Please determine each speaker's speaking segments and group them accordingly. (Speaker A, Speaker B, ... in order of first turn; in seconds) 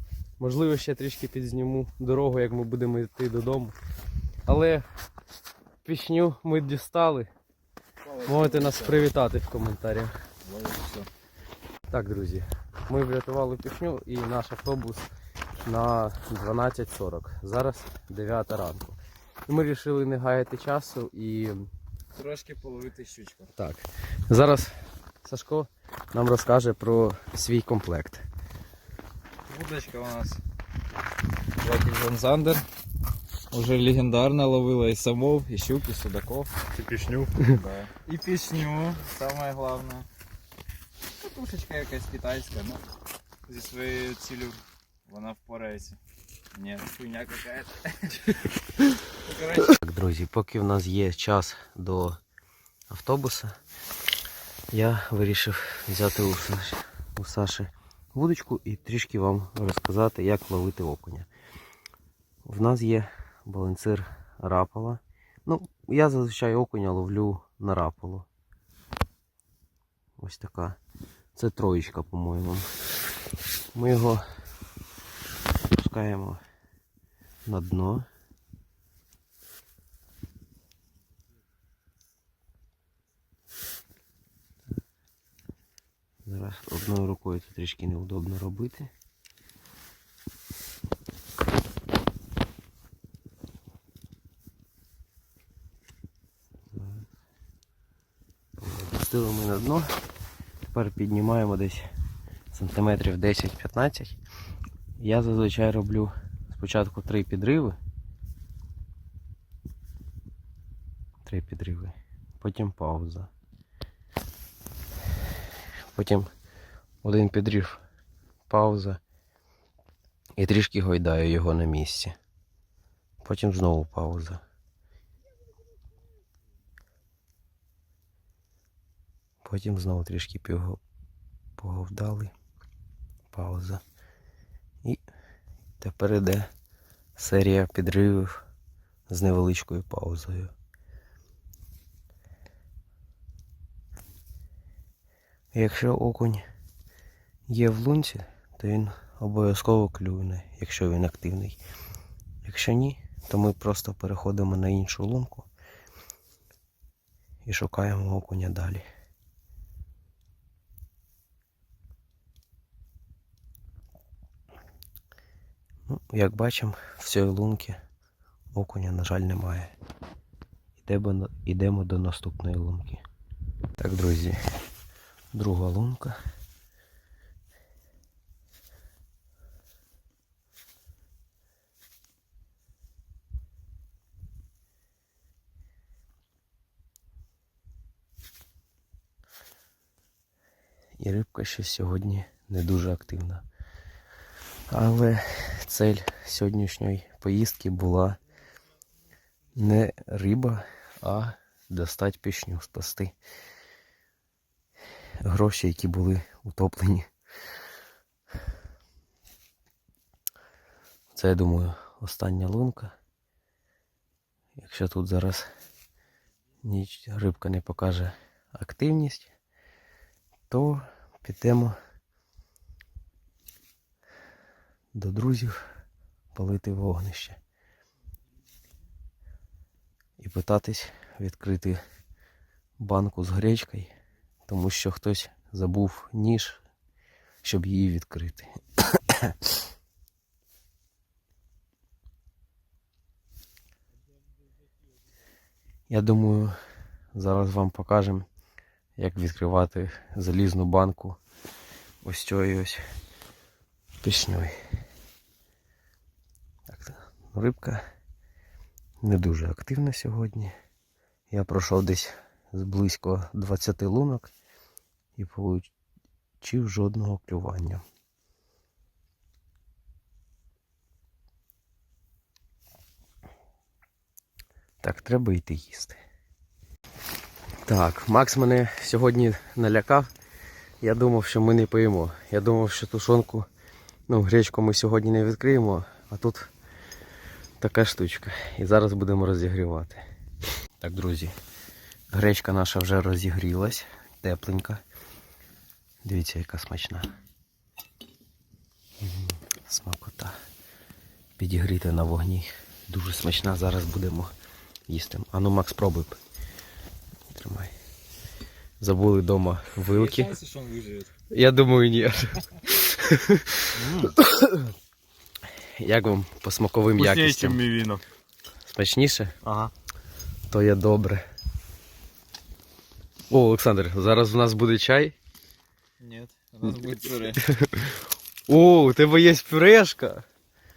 Speaker A: 0.4-3.8, 4.5-4.9, 5.8-7.3, 8.3-10.2, 11.9-15.1, 15.7-21.7, 23.6-28.2, 49.8-52.2, 52.9-53.6, 54.7-61.3, 62.5-68.3, 70.2-70.8, 71.3-72.7, 73.7-74.2, 75.7-76.4, 77.5-78.1, 86.2-88.9, 96.7-97.1, 98.6-100.0, 100.7-101.9, 102.5-104.2, 105.0-107.8, 111.2-113.3, 115.9-116.3, 117.0-117.8, 118.5-119.0, 120.4-122.2, 123.2-124.4, 129.4-130.8, 131.6-132.3, 133.3-133.8, 135.8-136.5, 137.2-138.4, 139.1-140.5, 145.5-146.4, 147.5-151.6, 152.4-155.5, 157.4-158.8, 165.9-167.8, 168.5-169.7, 170.8-173.0, 173.8-174.4, 175.3-176.2, 191.0-193.4, 194.7-198.2, 199.6-203.1, 205.2-207.1, 211.1-212.9, 214.6-215.5, 216.6-219.3, 220.5-221.8, 224.9-225.6, 226.3-227.4, 230.2-231.8, 232.8-233.9, 234.5-236.6, 237.4-239.3, 245.9-246.6, 247.2-248.3, 249.0-251.2, 252.0-252.8, 254.0-254.6, 256.7-257.8, 259.0-260.5, 261.3-264.3, 265.2-265.7, 266.4-267.8, 274.8-276.0, 277.7-280.1, 280.8-283.5, 284.1-286.5, 287.6-290.1, 290.8-291.4, 292.1-294.8, 296.1-297.1, 299.0-300.4, 301.4-304.3, 304.9-306.2, 307.3-307.7, 308.8-310.4, 311.3-314.7, 315.8-317.6, 318.7-319.3, 320.5-321.2, 323.3-325.1, 327.5-327.9, 328.5-330.2
Speaker B: 8.0-9.1, 10.4-11.1, 22.1-23.5, 29.5-30.4, 31.6-32.6, 33.5-36.5, 37.4-40.1, 41.2-42.8, 43.5-46.0, 46.5-48.5, 49.2-49.7, 309.9-311.1, 326.0-327.4
Speaker C: 36.7-37.4, 313.8-314.1, 317.0-318.0, 319.4-319.7